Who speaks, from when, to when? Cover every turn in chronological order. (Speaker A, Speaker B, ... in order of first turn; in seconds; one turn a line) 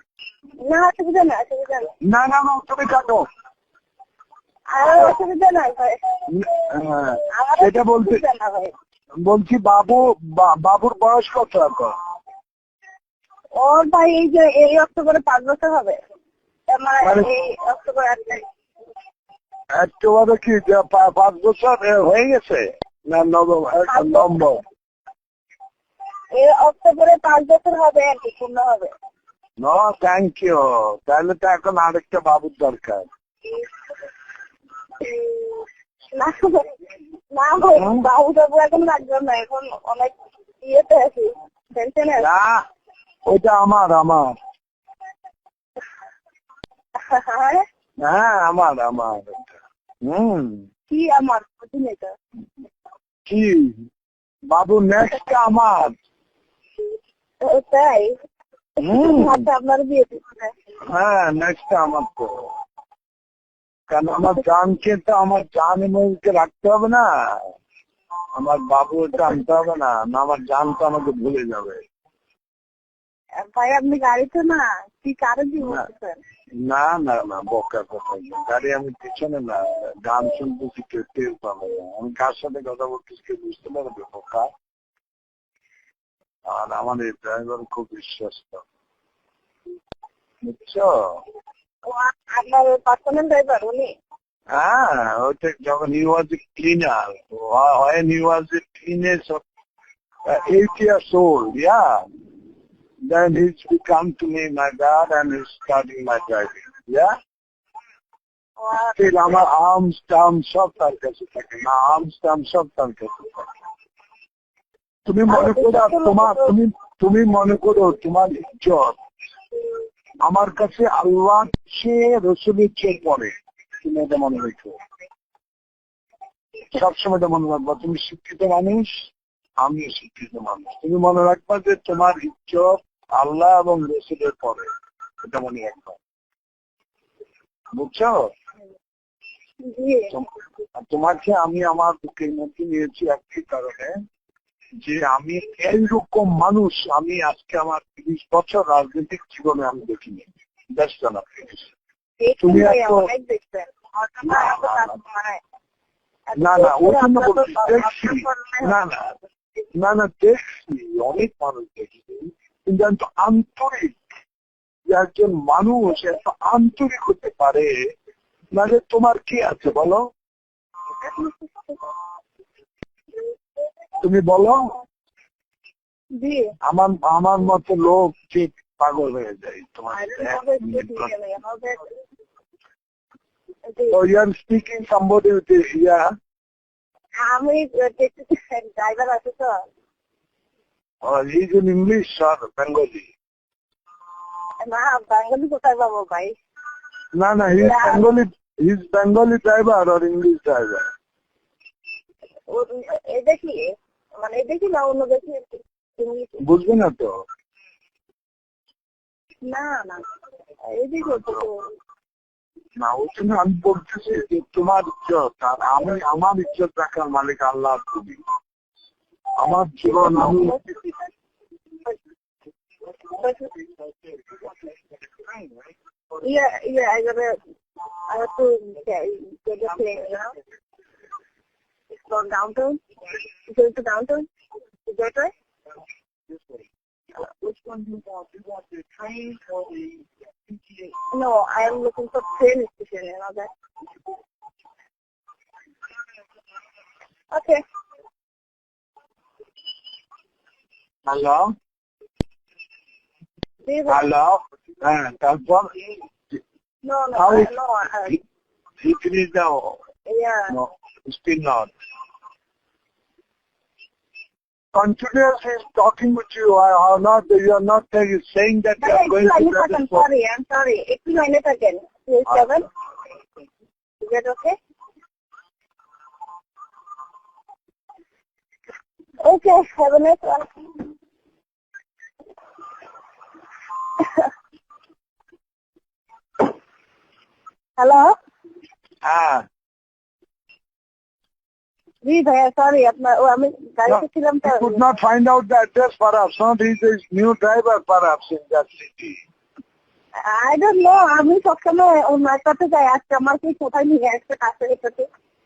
Speaker A: 0.6-1.9
Speaker B: 2.0-3.3
Speaker A: 4.7-6.0
Speaker B: 6.3-8.2
Speaker A: 7.3-8.7
Speaker B: 9.2-11.9
Speaker A: 13.6-16.0
Speaker A: 16.7-18.4
Speaker B: 17.0-17.3
Speaker B: 19.8-24.6
Speaker A: 23.9-24.4
Speaker A: 26.4-28.9
Speaker B: 29.6-33.1
Speaker A: 35.0-36.8
Speaker A: 37.3-42.3
Speaker B: 37.6-38.1
Speaker B: 42.2-42.6
Speaker B: 43.3-44.3
Speaker A: 47.0-47.6
Speaker B: 48.0-50.7
Speaker A: 50.9-52.1
Speaker B: 53.3-53.9
Speaker B: 54.5-55.9
Speaker A: 57.4-58.1
Speaker B: 58.8-59.5
Speaker A: 58.8-60.5
Speaker B: 60.9-62.5
Speaker B: 63.9-67.5
Speaker B: 68.4-71.8
Speaker A: 73.5-76.2
Speaker B: 76.6-84.5
Speaker B: 86.5-88.6
Speaker B: 90.4-91.2
Speaker A: 91.9-93.9
Speaker B: 94.5-99.4
Speaker B: 100.3-102.0
Speaker B: 103.1-107.1
Speaker A: 108.6-109.3
Speaker B: 109.0-113.5
Speaker B: 115.1-119.0
Speaker A: 115.3-116.5
Speaker B: 120.2-124.8
Speaker B: 126.7-129.1
Speaker B: 129.6-134.7
Speaker B: 135.2-136.0
Speaker B: 137.7-138.2
Speaker A: 139.6-140.2
Speaker B: 140.1-143.9
Speaker B: 144.8-151.7
Speaker A: 152.2-155.4
Speaker B: 152.4-153.1
Speaker B: 154.2-155.0
Speaker A: 156.3-158.8
Speaker B: 156.4-159.1
Speaker B: 159.8-164.0
Speaker B: 164.9-167.7
Speaker B: 168.5-170.0
Speaker A: 171.0-171.8
Speaker B: 174.0-174.8
Speaker A: 176.2-176.5
Speaker B: 176.6-181.1
Speaker A: 179.9-181.9
Speaker A: 183.7-184.0
Speaker B: 183.9-186.1
Speaker A: 187.2-189.6
Speaker B: 191.0-193.1
Speaker A: 194.6-196.3
Speaker B: 197.2-200.9
Speaker A: 197.5-198.1
Speaker A: 202.5-206.4
Speaker B: 206.4-207.1
Speaker A: 209.5-210.1
Speaker A: 210.7-211.7
Speaker B: 211.0-211.5
Speaker B: 212.8-218.2
Speaker B: 219.4-220.6
Speaker A: 219.8-221.1
Speaker A: 223.1-223.5
Speaker A: 226.2-227.4
Speaker A: 228.1-230.4
Speaker A: 232.0-232.8
Speaker A: 233.5-234.3
Speaker A: 234.9-235.3
Speaker B: 237.3-239.8
Speaker A: 241.1-243.5
Speaker A: 247.3-247.6
Speaker B: 251.1-251.5
Speaker A: 253.6-254.1
Speaker B: 253.9-256.0
Speaker A: 256.8-258.2
Speaker B: 257.1-257.5
Speaker B: 258.8-259.8
Speaker A: 260.1-260.6
Speaker B: 260.5-261.7
Speaker B: 264.7-270.1
Speaker A: 268.8-272.7
Speaker A: 274.0-274.6
Speaker A: 279.2-280.5
Speaker A: 284.0-284.3
Speaker A: 287.8-288.1
Speaker B: 289.0-289.4
Speaker A: 292.0-294.8
Speaker B: 293.9-299.2
Speaker A: 300.2-305.1